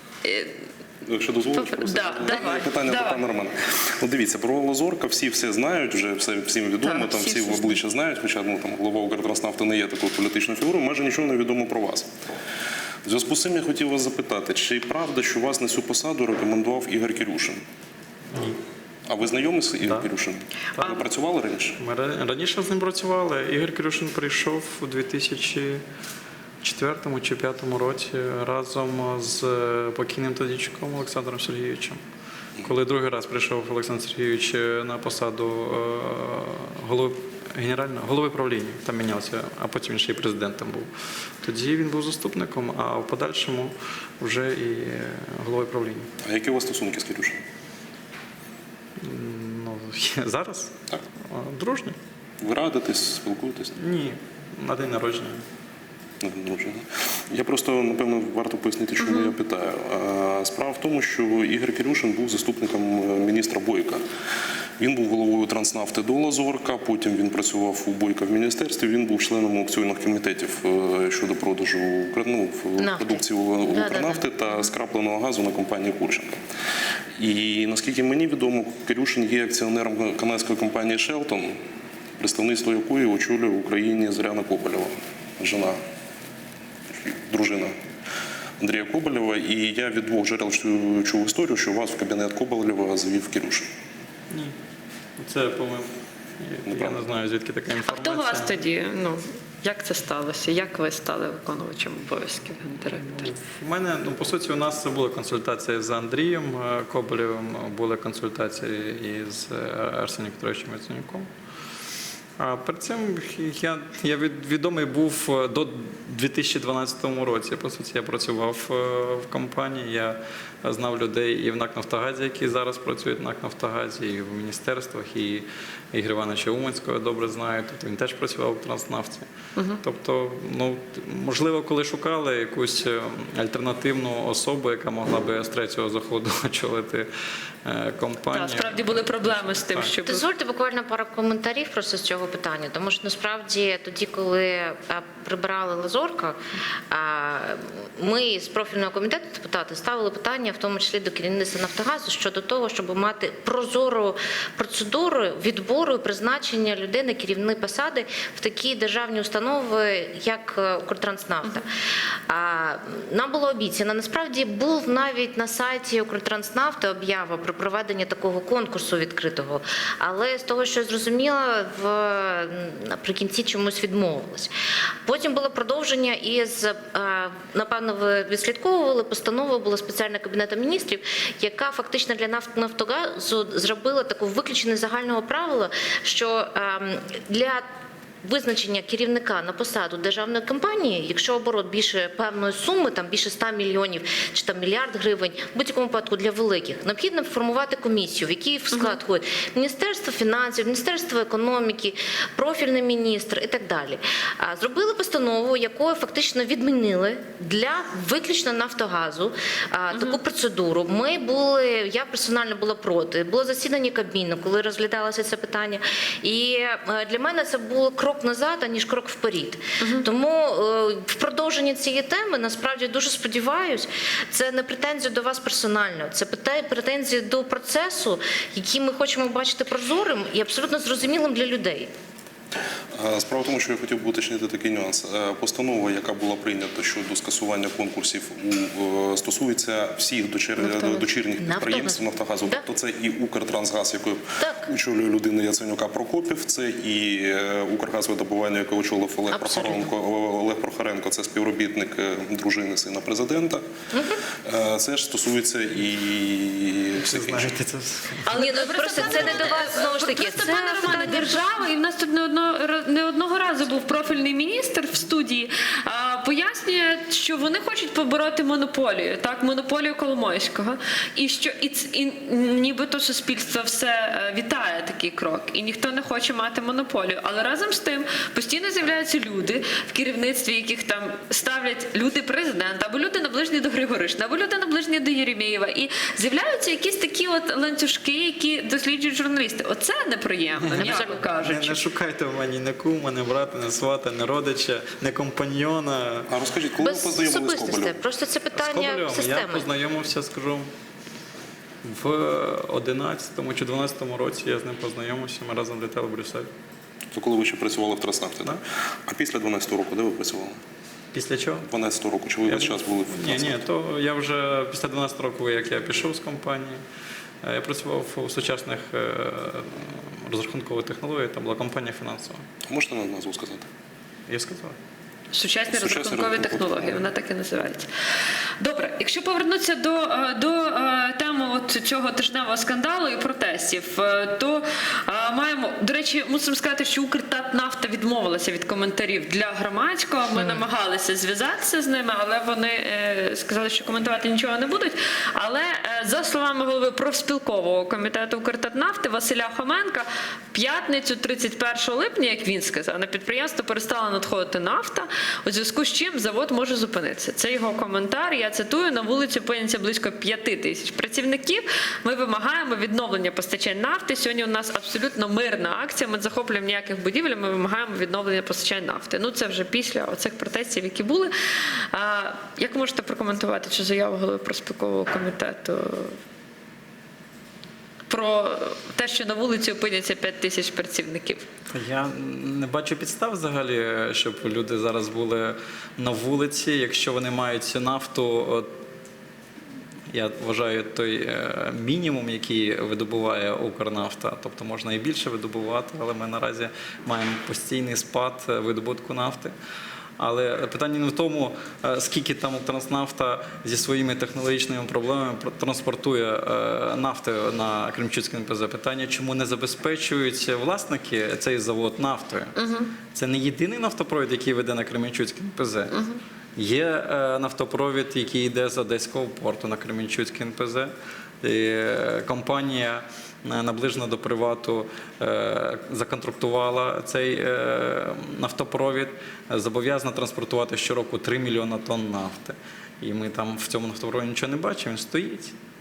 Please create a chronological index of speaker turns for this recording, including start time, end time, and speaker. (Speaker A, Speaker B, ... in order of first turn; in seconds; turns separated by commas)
Speaker A: 0.2-0.6, Speaker B: 1.0-12.1, Speaker A: 1.5-3.2, Speaker A: 6.8-7.8, Speaker B: 13.1-17.6, Speaker C: 18.3-18.6, Speaker B: 19.1-21.8, Speaker C: 19.8-20.1, Speaker C: 21.8-25.8, Speaker C: 26.6-32.0, Speaker C: 32.6-40.9, Speaker C: 41.4-46.1, Speaker B: 46.2-47.4, Speaker C: 49.0-52.0, Speaker B: 52.4-53.7, Speaker C: 53.7-55.4, Speaker B: 56.2-64.0, Speaker A: 59.0-59.3, Speaker B: 64.8-76.4, Speaker D: 72.8-74.2, Speaker B: 77.2-81.6, Speaker B: 82.2-85.8, Speaker B: 86.9-87.8, Speaker B: 88.6-93.7, Speaker C: 94.3-94.6, Speaker C: 95.2-98.5, Speaker B: 96.7-97.0, Speaker A: 97.8-103.3, Speaker C: 102.8-111.3, Speaker C: 112.4-129.3, Speaker A: 129.6-129.8, Speaker C: 129.8-137.1, Speaker C: 137.6-139.9, Speaker A: 138.3-140.2, Speaker D: 140.1-161.7, Speaker D: 162.3-174.5, Speaker D: 175.0-187.7, Speaker D: 188.2-231.9, Speaker A: 198.7-199.0, Speaker A: 209.9-210.2, Speaker A: 219.8-220.1, Speaker B: 232.9-253.6, Speaker D: 240.6-242.6, Speaker D: 244.4-244.7, Speaker D: 249.3-249.9, Speaker D: 253.9-254.2, Speaker B: 254.4-257.6, Speaker C: 256.9-258.3, Speaker A: 258.2-291.8, Speaker D: 258.3-261.4, Speaker C: 290.6-296.3, Speaker D: 290.8-291.2, Speaker B: 296.3-298.0, Speaker D: 296.8-299.7, Speaker C: 298.5-300.7, Speaker C: 301.8-306.5, Speaker B: 307.1-310.6, Speaker C: 311.1-311.7, Speaker B: 311.6-313.6, Speaker C: 312.5-316.8, Speaker C: 317.4-322.4, Speaker B: 322.6-323.7, Speaker C: 324.3-324.8, Speaker A: 325.3-327.9, Speaker B: 325.7-327.1, Speaker A: 328.6-376.2, Speaker D: 340.4-340.6, Speaker A: 378.1-381.5, Speaker C: 381.7-388.8, Speaker C: 390.1-399.5, Speaker C: 400.2-412.5, Speaker A: 412.6-412.9, Speaker C: 413.1-415.9, Speaker A: 415.9-416.2, Speaker C: 416.6-435.5